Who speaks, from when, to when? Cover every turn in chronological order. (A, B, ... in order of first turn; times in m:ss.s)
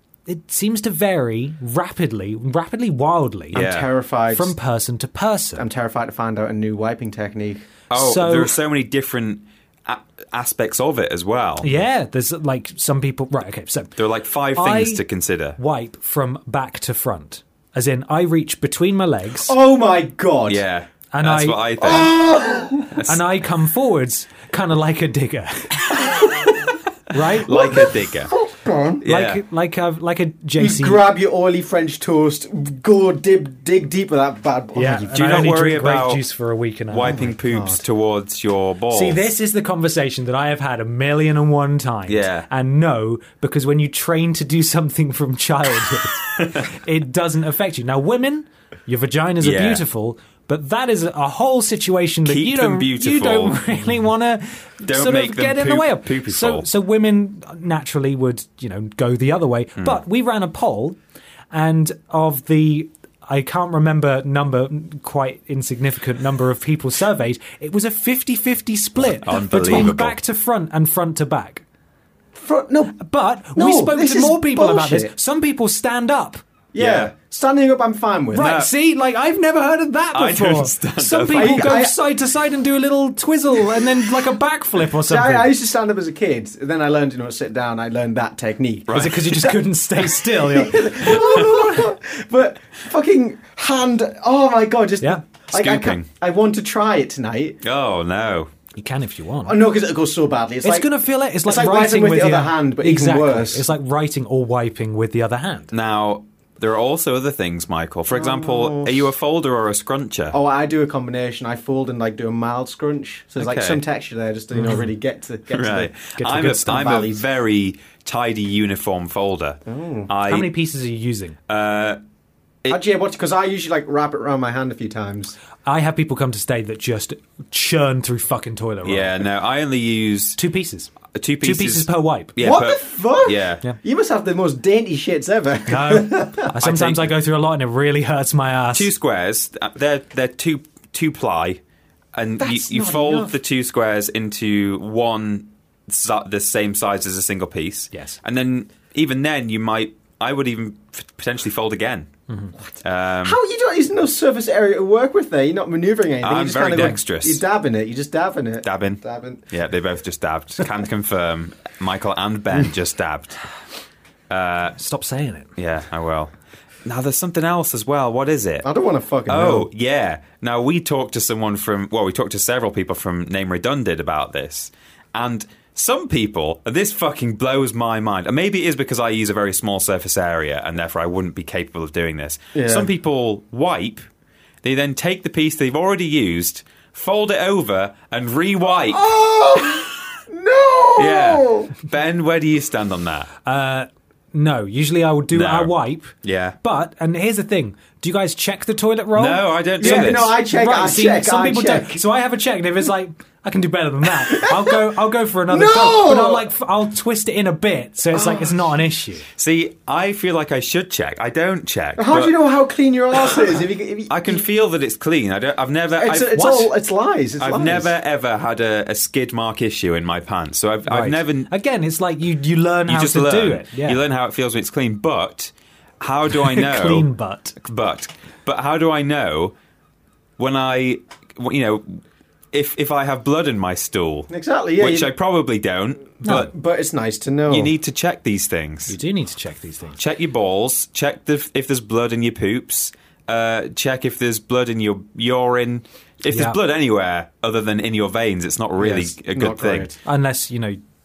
0:00.3-0:03.7 A
0:03.5-0:03.9 B
0:03.5-0:04.5 C
0:04.3-0:05.6 A
0:05.6-0:07.6 C
0:07.9-0:11.8 B
0:07.9-0:08.5 A
0:11.6-0:13.9 A
0:14.0-0:15.6 B
0:14.5-0:15.0 A
0:15.6-0:19.5 A
0:19.4-0:20.6 C
0:20.5-0:22.2 B
0:21.1-0:21.9 A
0:21.8-0:23.0 C
0:22.9-0:23.2 B
0:23.1-0:26.0 A
0:27.1-0:27.8 A
0:27.4-0:28.3 B
0:27.5-0:29.0 C
0:29.0-0:29.4 B
0:29.0-0:31.0 A
0:30.6-0:35.1 C
0:34.7-0:37.3 A
0:35.1-0:36.2 B
0:36.9-0:39.3 B
0:37.0-0:37.8 C
0:38.9-1:01.0 A
0:42.1-0:42.5 B
0:49.4-0:49.8 B
0:52.2-0:53.8 B
0:54.8-0:56.7 B
1:01.5-1:11.6 A
1:09.0-1:10.2 B
1:12.3-1:13.0 C
1:13.0-1:16.4 A
1:13.5-1:15.1 C
1:16.7-1:18.6 C
1:16.8-1:17.1 B
1:18.3-1:25.5 A
1:18.4-1:18.7 B
1:20.1-1:21.8 B
1:21.3-1:21.9 C
1:25.0-1:29.1 C
1:28.9-1:29.6 B
1:28.9-1:31.2 A
1:30.2-1:37.6 C
1:31.2-1:31.6 B
1:35.5-1:36.1 B
1:37.6-1:38.5 B
1:38.8-1:39.6 A
1:39.4-1:40.9 C
1:40.6-1:45.7 A
1:41.4-1:43.7 C
1:45.7-1:50.4 B
1:48.1-1:49.1 C
1:50.3-1:57.2 C
1:53.4-1:53.8 B
1:55.5-2:00.6 B
1:56.2-1:56.8 A
1:59.7-2:00.1 C
2:00.2-2:01.4 A
2:01.5-2:02.0 B
2:02.7-2:05.4 C
2:05.6-2:09.1 A
2:08.8-2:10.4 B
2:10.4-2:12.3 A
2:11.1-2:13.6 B
2:12.4-2:16.5 C
2:15.7-2:18.9 A
2:16.6-2:17.1 B
2:18.7-2:21.6 B
2:22.1-2:32.1 B
2:22.4-2:23.3 C
2:27.9-2:28.2 A
2:32.8-2:33.4 B
2:33.2-2:39.4 C
2:36.2-2:37.4 B
2:38.6-2:43.4 B
2:44.3-2:44.8 B
2:44.8-2:45.5 A
2:45.6-2:46.3 B
2:46.8-2:48.7 B
2:48.6-2:49.7 C
2:49.3-3:04.0 B
3:02.5-3:02.9 C
3:04.6-3:09.0 B
3:08.9-3:11.7 C
3:11.0-3:13.3 B
3:13.4-3:29.2 A
3:15.3-3:16.6 B
3:19.2-3:20.3 B
3:19.8-3:22.0 C
3:24.3-3:24.8 C
3:25.5-3:26.5 C
3:28.1-3:28.4 C
3:29.4-3:32.3 B
3:32.0-3:34.4 C
3:34.1-3:36.7 B
3:36.0-3:37.9 C
3:37.4-3:41.5 B
3:40.9-3:44.0 A
3:42.9-3:47.1 B
3:46.3-3:47.6 A
3:47.6-3:49.5 B
3:50.4-3:56.5 B
3:54.3-3:55.1 C
3:56.2-3:57.7 C
3:57.5-3:59.0 B
3:58.9-4:00.0 A
4:00.0-4:09.9 B
4:06.3-4:06.6 A
4:08.8-4:10.0 C
4:10.0-4:10.8 A